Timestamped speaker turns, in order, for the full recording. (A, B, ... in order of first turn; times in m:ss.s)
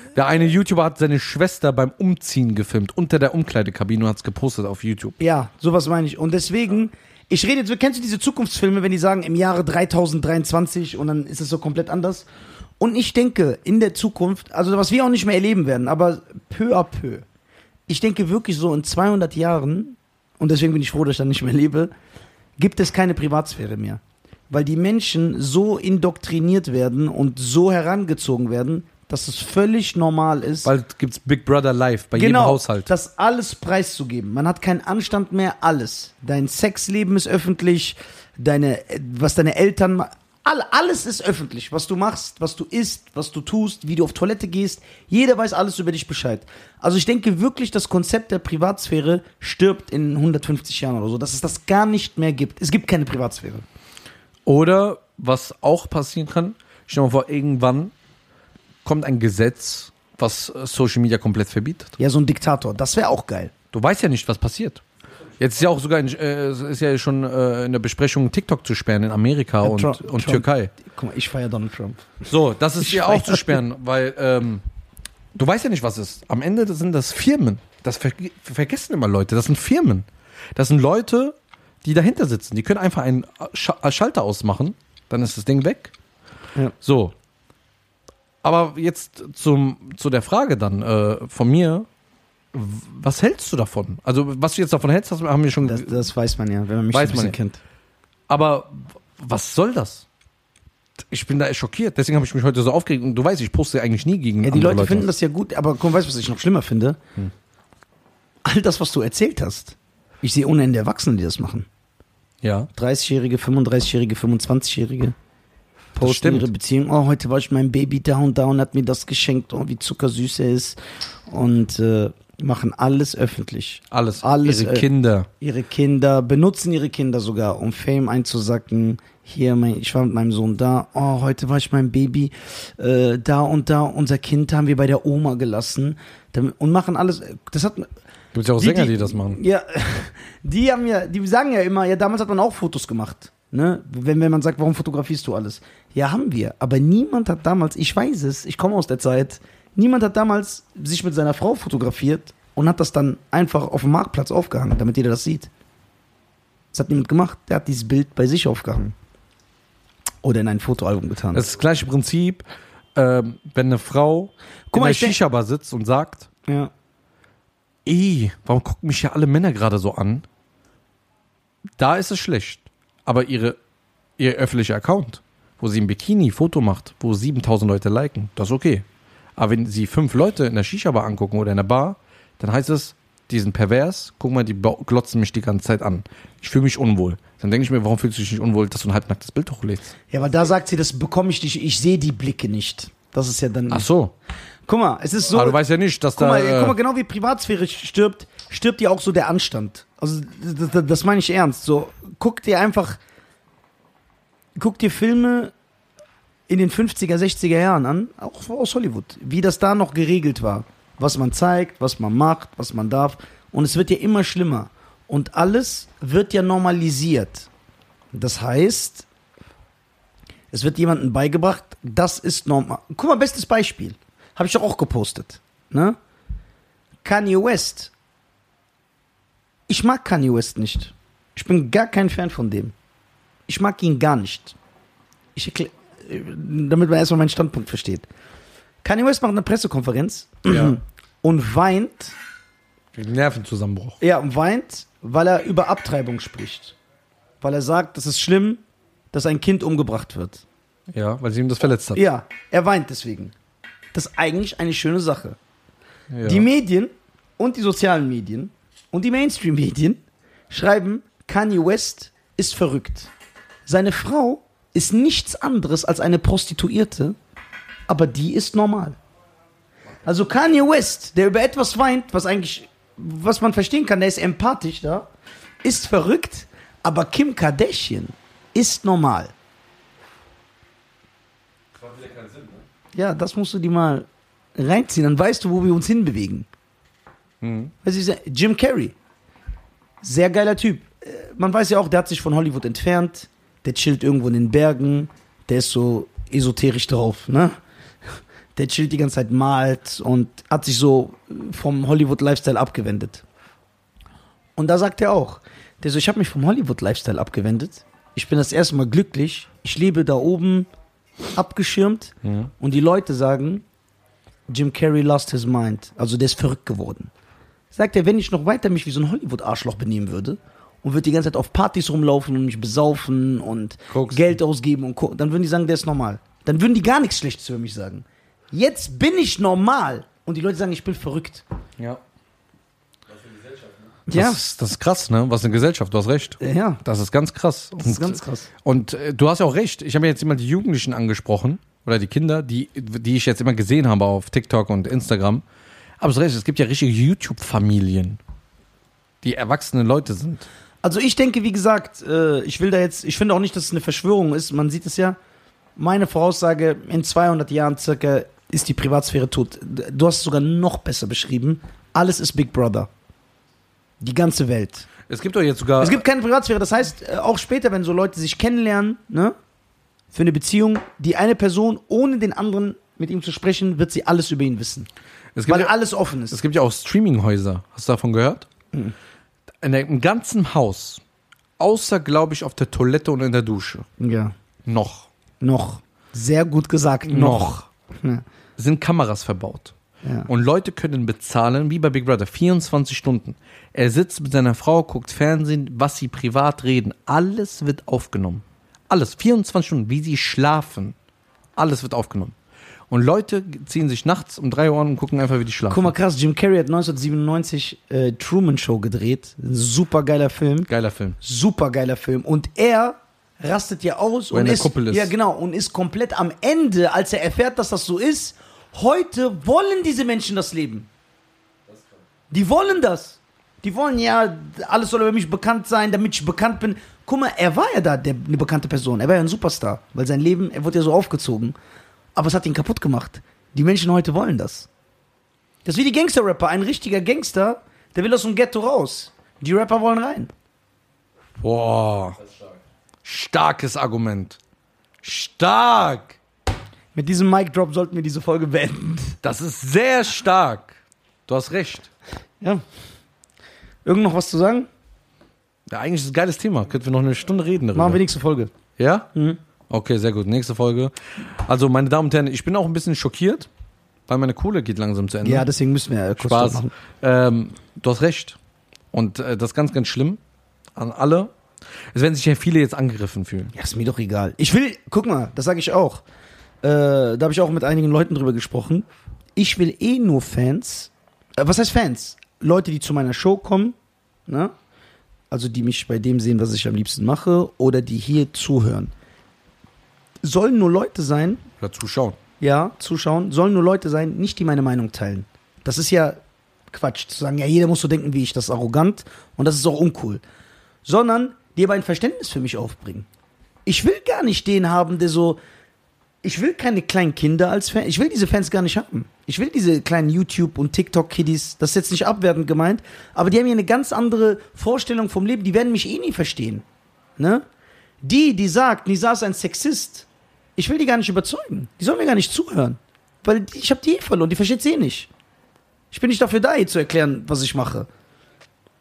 0:00.1-0:05.2 A
0:05.2-0:12.3 B
0:12.8-0:17.2 B
0:17.9-0:21.9 B
0:22.6-0:30.7 B
0:30.6-0:32.9 A
0:32.2-0:53.6 B
0:54.5-0:57.9 A
0:58.8-1:02.0 A
1:02.0-1:03.5 B
1:03.7-1:04.8 A
1:05.4-1:10.7 A
1:09.6-1:12.2 B
1:12.3-1:14.6 A
1:12.8-1:13.6 B
1:15.4-1:25.9 A
1:26.8-1:27.2 A
1:28.4-1:31.9 A
1:32.5-1:36.0 A
1:35.6-1:37.6 B
1:36.9-1:37.4 A
1:38.3-1:40.0 A
1:41.1-1:45.1 A
1:44.4-1:47.0 B
1:48.4-1:51.7 B
1:52.4-1:52.7 A
1:52.8-1:55.2 B
1:56.0-2:04.9 B
1:56.0-1:56.5 A
2:03.9-2:05.3 A
2:05.4-2:17.9 B
2:18.3-2:19.4 A
2:18.6-2:35.5 B
2:36.7-2:38.9 B
2:40.2-2:41.5 B
2:41.3-2:42.4 A
2:43.0-2:46.3 A
2:44.7-2:45.2 B
2:46.5-2:46.7 B
2:47.8-2:50.3 A
2:51.8-2:53.6 A
2:54.2-2:58.9 A
2:59.4-3:10.0 A
3:10.1-3:13.9 B
3:13.7-3:14.1 A
3:14.7-3:15.6 B
3:15.3-3:16.8 A
3:16.1-3:23.0 B
3:24.6-3:25.5 B
3:26.5-3:37.5 B
3:38.1-3:39.1 B
3:40.5-3:46.0 B
3:47.0-3:47.9 B
3:49.7-3:52.7 B
3:53.5-3:54.6 B
3:55.4-3:58.1 B
3:58.8-4:02.2 B
4:00.5-4:00.8 A
4:02.9-4:04.0 A
4:04.0-4:06.8 B
4:07.4-4:10.4 B
4:10.9-4:12.0 A
4:11.9-4:13.3 B
4:13.9-4:15.4 B
4:16.1-4:16.5 A
4:16.2-4:23.1 B
4:23.7-4:27.2 B
4:27.9-4:29.0 B
4:30.0-4:35.1 B
4:35.6-4:39.3 B
4:41.8-4:42.6 C
4:43.0-4:46.5 B
4:47.4-4:47.7 A
4:47.8-4:49.0 B
4:50.0-5:03.2 B
5:04.6-5:10.7 B
5:11.3-5:13.6 B
5:12.2-5:12.5 A
5:14.5-5:17.1 B
5:17.7-5:31.4 B
5:23.9-5:24.4 A
5:33.1-5:34.0 C
5:34.1-5:34.4 B
5:34.1-5:45.4 A
5:36.4-5:36.8 B
5:37.8-5:38.5 B
5:46.0-5:48.2 A
5:49.2-5:50.4 A
5:50.8-5:55.2 B
5:55.8-6:02.9 B
6:04.0-6:04.9 B
6:05.1-6:06.0 A
6:05.8-6:09.4 B
6:10.1-6:14.9 B
6:15.4-6:15.7 A
6:15.5-6:16.4 B
6:16.3-6:18.5 A
6:19.6-6:21.0 A
6:21.6-6:23.9 A
6:24.0-6:24.3 B
6:24.6-6:25.1 A
6:25.4-6:28.2 B
6:27.1-6:27.6 A
6:28.6-6:29.7 A
6:30.0-6:30.3 B
6:30.3-6:41.0 A
6:41.6-6:42.4 A
6:42.9-6:45.9 A
6:45.7-6:50.7 B
6:50.7-6:51.2 A
6:51.2-7:00.9 B
6:54.3-6:55.1 A
7:01.7-7:02.0 C
7:02.3-7:11.6 B
7:12.2-7:14.7 B
7:15.6-7:20.3 B
7:21.4-7:22.2 A
7:22.2-7:22.5 C
7:23.0-7:24.4 A
7:25.0-7:26.2 A
7:27.0-7:29.2 B
7:29.2-7:31.9 A
7:33.8-7:34.7 B
7:35.7-7:38.0 A
7:37.7-7:38.5 B
7:38.8-7:39.1 A
7:39.7-7:43.5 A
7:44.1-7:45.5 A
7:45.2-7:46.7 B
7:46.2-7:48.4 A
7:48.9-7:50.2 A
7:50.8-7:51.3 A
7:51.9-7:53.5 A
7:53.5-7:56.0 B
7:56.6-8:03.8 B
8:04.3-8:04.5 B
8:05.3-8:08.9 B
8:10.2-8:11.4 B
8:11.6-8:12.2 A
8:12.4-8:16.2 B
8:16.7-8:20.2 B
8:20.8-8:23.1 B
8:23.7-8:25.4 B
8:26.2-8:36.6 B
8:37.2-8:37.4 B
8:38.0-8:45.1 B
8:45.9-8:47.9 B